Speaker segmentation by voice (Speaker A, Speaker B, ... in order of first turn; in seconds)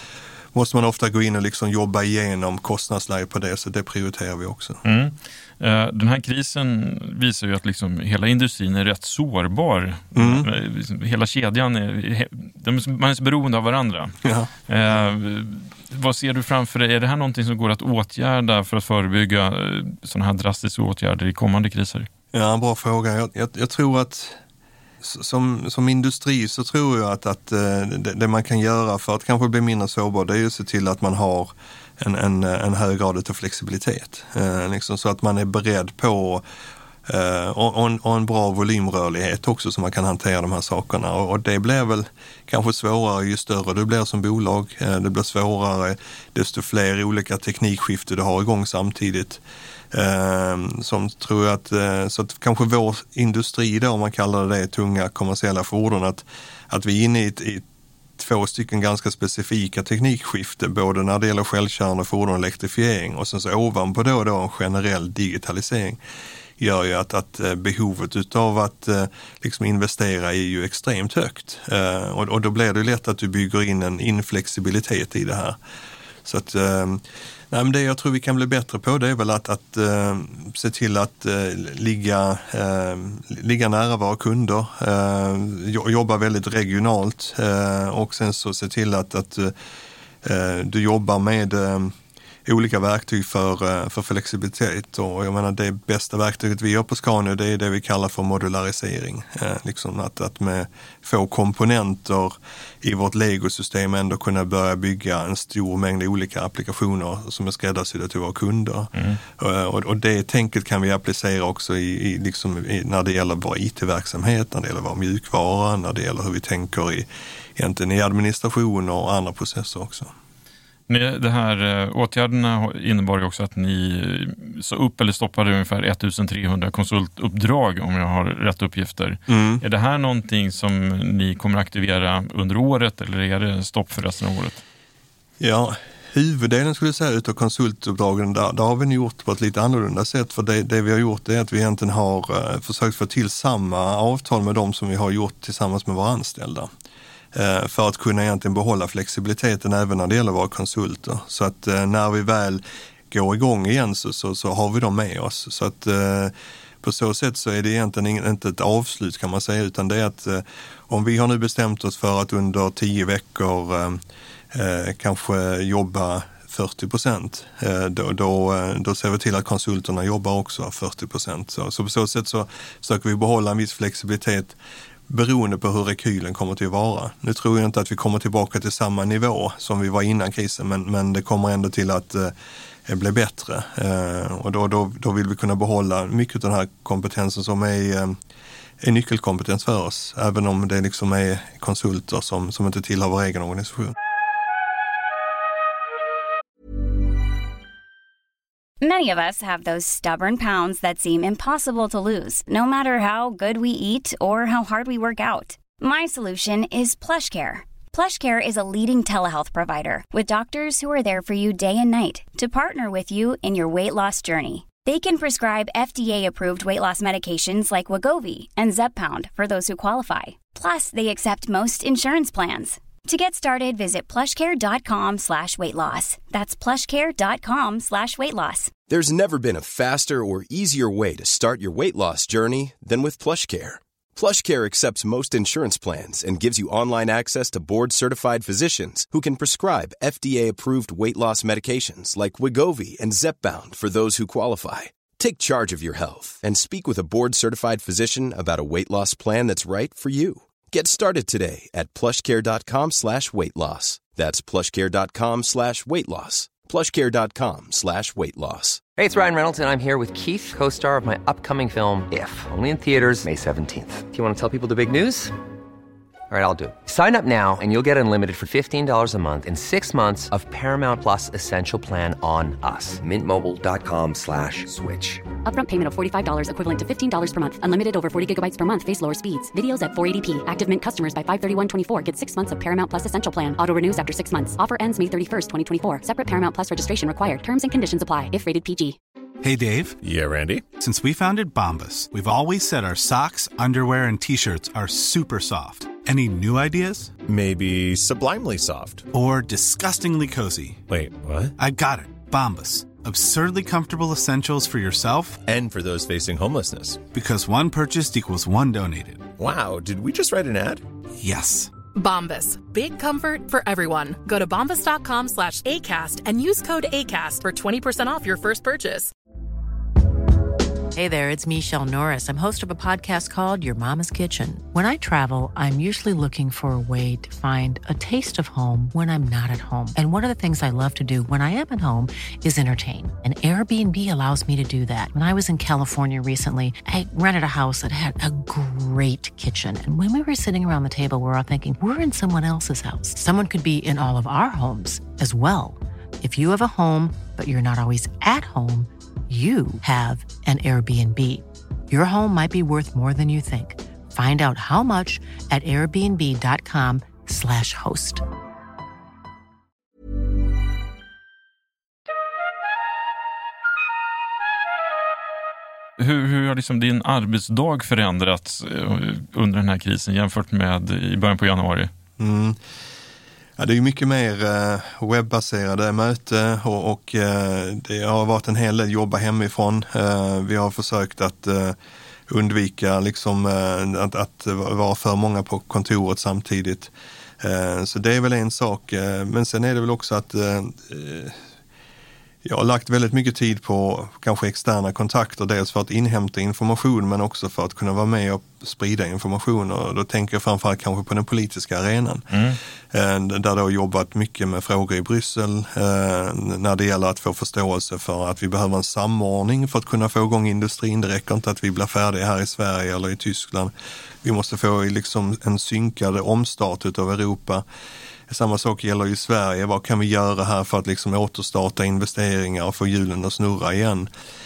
Speaker A: 0.5-4.8, 10.1-10.5, 14.2-14.5, 22.3-24.4, 25.0-36.4, 37.0-57.6, 58.2-66.0, 66.6-75.6, 76.2-89.5, 90.2-91.9, 92.5-120.1, 129.3-129.6, 135.4-146.7, 147.3-174.6, 175.1-182.3, 182.9-188.2, 188.8-193.9, 372.2-372.6, 373.6-381.8, 382.3-391.4, 392.4-402.4, 402.9-417.6, 418.3-424.1
Speaker B: 4.8-14.1, 14.7-22.1, 120.9-134.6, 366.0-371.9, 402.3-402.6
Speaker C: 198.8-228.7
Speaker D: 228.9-258.8
Speaker E: 258.9-265.3, 266.3-275.2
Speaker F: 275.4-289.0
Speaker G: 289.4-290.0, 290.7-297.1, 299.1-300.8, 301.6-305.4, 307.1-309.3, 311.2-311.7
Speaker H: 290.0-290.7, 297.2-299.1, 300.9-301.5, 305.4-307.0, 309.4-310.8
Speaker I: 311.9-319.1
Speaker J: 320.9-358.2